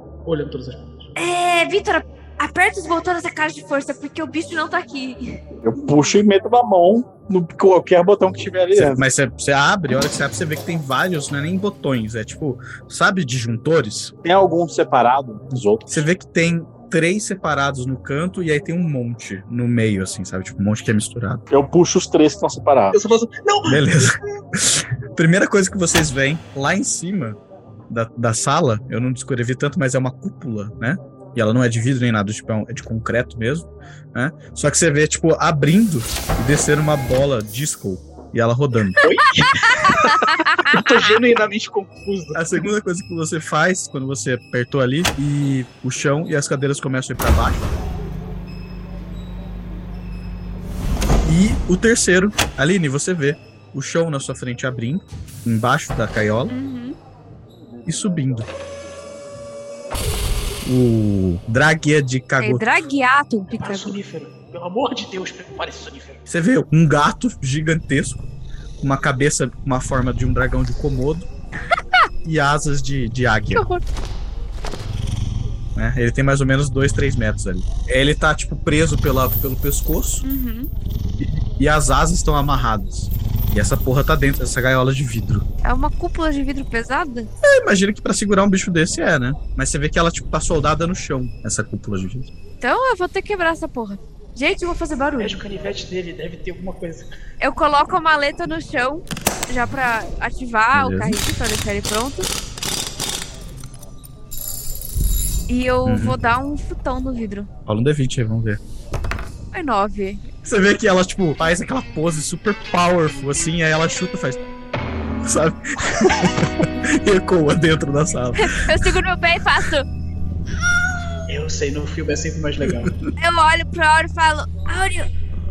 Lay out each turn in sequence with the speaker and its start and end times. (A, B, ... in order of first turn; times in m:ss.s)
0:00.2-0:01.1 A
0:01.2-0:05.4 B
0:05.6-0:09.0 C
0:08.8-0:14.1 D
0:14.2-0:16.1 C
0:15.9-0:21.4 D
0:21.5-0:23.0 C
0:22.9-0:24.2 A
0:23.7-0:27.4 D
0:27.9-0:39.0 D
0:39.0-0:42.6 A
0:39.5-0:40.8 B
0:42.3-0:47.7 D
0:51.2-0:56.5 D
0:56.5-0:57.0 B
0:57.8-0:58.5 D
1:00.6-1:02.6 D
1:02.4-1:04.0 B
1:03.5-1:06.2 A
1:06.3-1:08.3 D
1:08.8-1:11.3 D
1:12.2-1:13.6 D
1:13.5-1:13.8 B
1:15.8-1:20.2 D
1:20.2-1:20.7 B
1:21.2-1:25.4 D
1:25.6-1:27.3 B
1:27.4-1:32.3 D
1:32.6-1:35.4 B
1:35.2-1:37.1 A
1:37.4-1:42.3 B
1:40.7-1:41.2 D
1:45.5-1:47.5 B
1:45.8-1:46.2 D
1:47.7-1:48.6 D
1:49.5-1:50.2 B
1:50.4-1:54.4 D
1:55.2-1:58.9 D
1:58.4-1:59.9 B
2:01.3-2:02.9 A
2:02.6-2:03.1 D
2:03.2-2:05.1 B